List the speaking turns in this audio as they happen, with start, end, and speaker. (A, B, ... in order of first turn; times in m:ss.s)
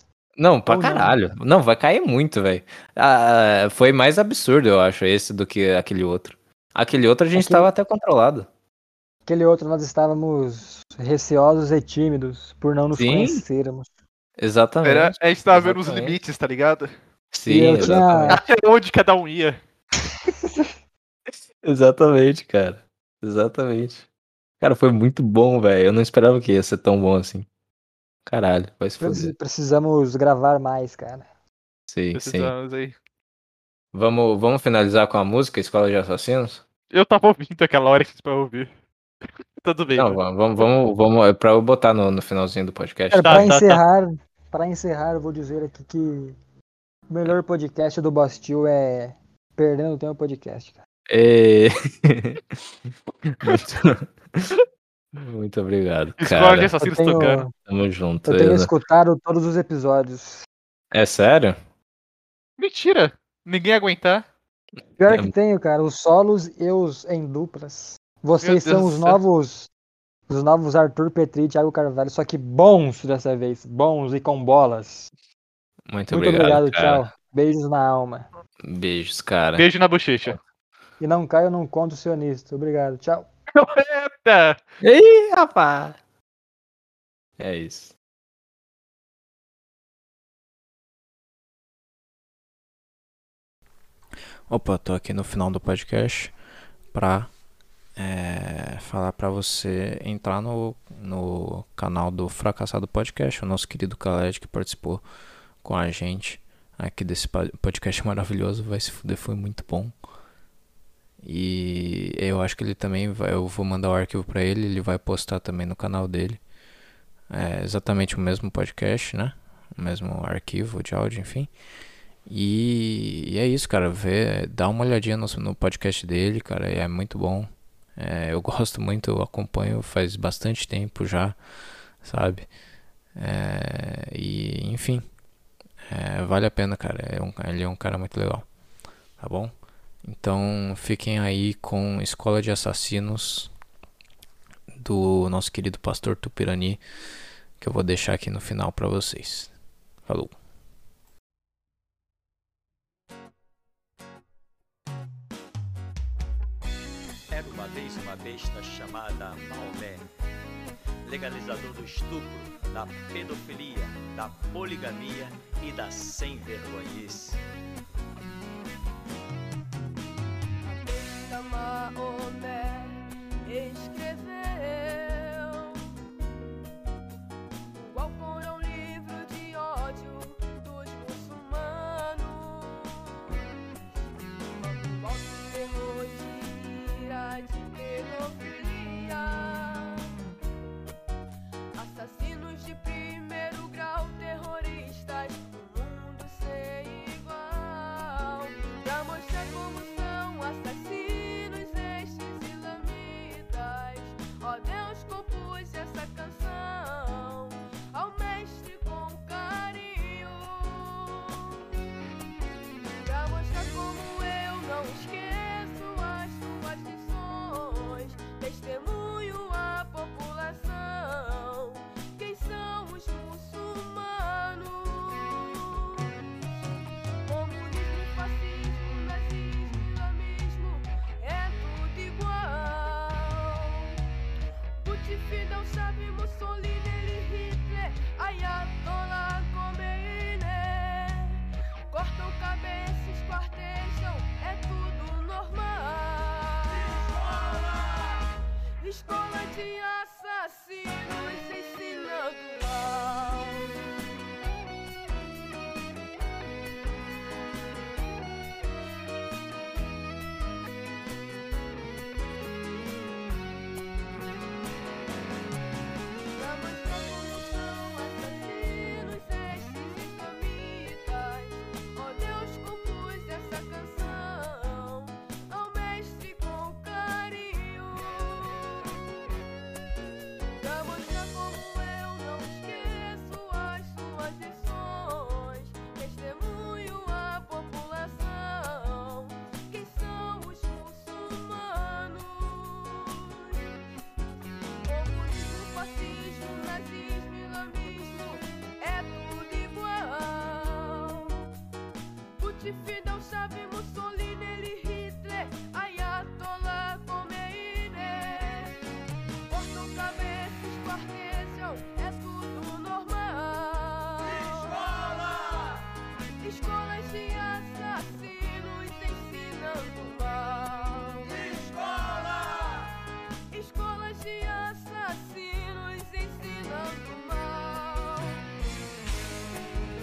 0:00.4-0:08.5 A
0:00.7-0:01.2 B
0:07.4-0:07.7 B
0:09.3-0:13.9 B
0:13.0-0:13.4 A
0:14.4-0:16.2 A
0:14.8-0:16.9 C
0:17.3-0:18.4 A
0:17.5-0:18.4 B
0:17.8-0:19.6 C
0:20.4-0:20.7 B
0:21.6-0:24.1 A
0:24.6-0:27.5 A
0:28.3-0:29.3 A
0:29.0-0:31.3 B
0:31.9-0:32.5 A
0:32.2-0:33.0 C
0:33.9-0:36.6 A
0:36.9-0:38.7 C
0:39.6-0:40.2 C
0:39.9-0:43.5 A
0:43.1-0:46.4 B
0:43.2-0:43.8 C
0:47.1-0:50.8 B
0:51.1-0:52.4 A
0:53.3-0:54.6 A
0:55.1-0:56.7 A
0:56.2-0:57.4 C
0:56.8-0:57.5 B
0:57.7-0:58.7 A
0:58.2-1:00.4 B
1:00.9-1:01.6 A
1:02.6-1:04.2 C
1:05.0-1:09.7 B
1:08.4-1:09.2 C
1:10.3-1:15.1 B
1:15.9-1:17.0 A
1:16.1-1:18.3 B
1:18.6-1:19.6 A
1:19.6-1:20.4 C
1:21.0-1:23.3 B
1:23.5-1:24.6 C
1:24.8-1:26.0 A
1:27.4-1:27.9 A
1:34.5-1:36.3 A
1:36.9-1:37.3 A
1:38.0-1:45.0 A
1:45.6-1:49.9 A
1:51.2-1:56.4 A
1:57.3-2:01.5 A
2:02.3-2:11.4 A
2:12.0-2:12.5 A
2:13.2-2:15.0 A
2:15.9-2:18.4 A
2:19.2-2:19.5 A
2:20.0-2:23.5 A
2:24.8-2:26.8 A
2:27.6-2:29.5 A
2:30.1-2:30.4 A
2:37.3-2:40.1 D
2:41.1-2:47.4 D
2:50.8-2:55.8 E
2:57.7-3:03.3 E
3:04.5-3:10.1 E
3:11.8-3:31.6 E
3:33.0-3:46.0 E
3:47.3-3:54.0 E
3:54.8-4:01.4 E
4:01.9-4:08.0 E
4:08.8-4:13.8 E
4:26.3-4:38.6 E
4:40.6-4:53.5 E
4:54.9-5:01.4 E
5:02.4-5:08.7 E
5:09.5-5:15.7 E
5:16.4-5:22.9 E
5:23.5-5:28.4 E